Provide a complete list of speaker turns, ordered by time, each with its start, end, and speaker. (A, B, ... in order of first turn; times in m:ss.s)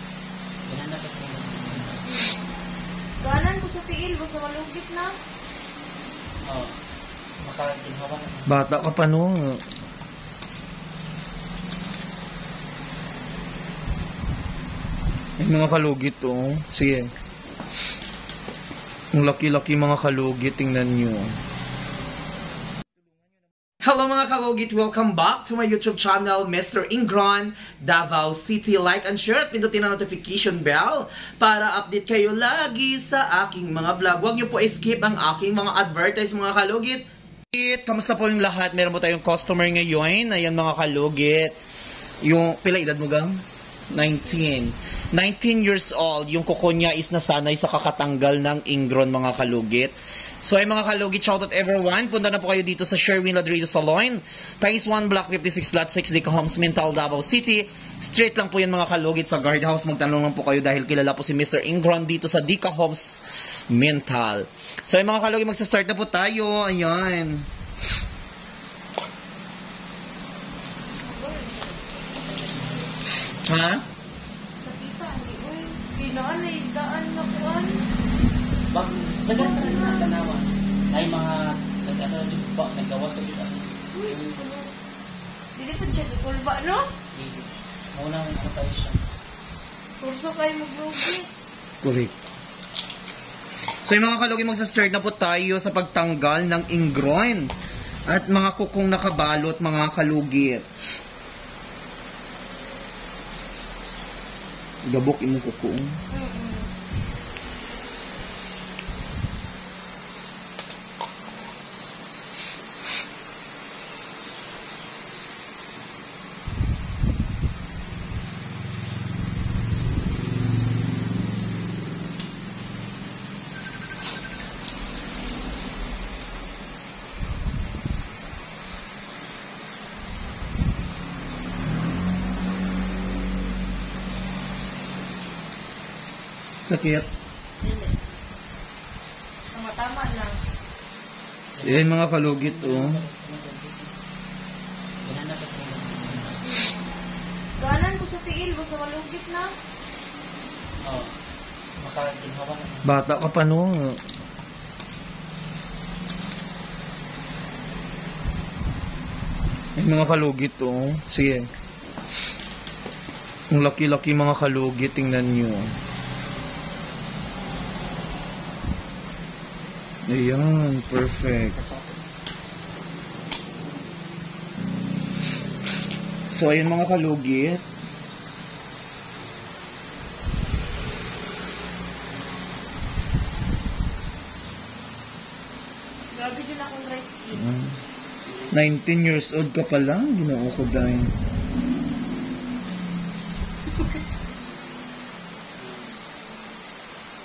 0:00.6-0:02.0 A
0:02.0-0:02.4 B
0:03.2-0:05.1 B
0:06.5-0:06.8 A
0:07.4-0:08.6 A
0:08.5-0:09.6 C
0:15.4-0:17.1 C
0:19.1-0:21.4 C
0:23.8-0:41.6 C
0:42.2-1:07.5 C
1:11.0-1:13.1 B
1:13.5-1:13.8 C
1:14.6-1:17.8 B
1:18.7-1:24.4 A
1:19.3-1:20.1 B
1:23.9-1:24.7 B
1:25.6-1:26.8 B
1:27.1-1:29.0 A
1:30.0-1:31.3 B
1:31.8-1:32.1 C
1:33.8-1:37.5 C
1:38.1-1:40.7 C
1:44.8-1:45.9 C
1:46.1-1:46.7 B
2:16.7-2:17.1 C
2:17.6-2:17.9 B
2:19.5-2:20.4 B
2:21.6-2:23.9 A
2:21.6-2:23.0 C
2:25.0-2:26.4 A
2:26.4-2:26.8 B
2:27.6-2:29.5 B
2:30.8-2:31.1 A
2:31.8-2:32.9 A
2:32.8-2:34.0 C
2:39.8-2:41.5 C
2:43.5-2:45.8 C
2:50.1-2:51.7 C
2:56.3-2:57.6 C
3:06.1-3:07.4 B
3:08.3-3:08.5 A
3:08.5-3:11.1 C
3:15.6-3:16.0 A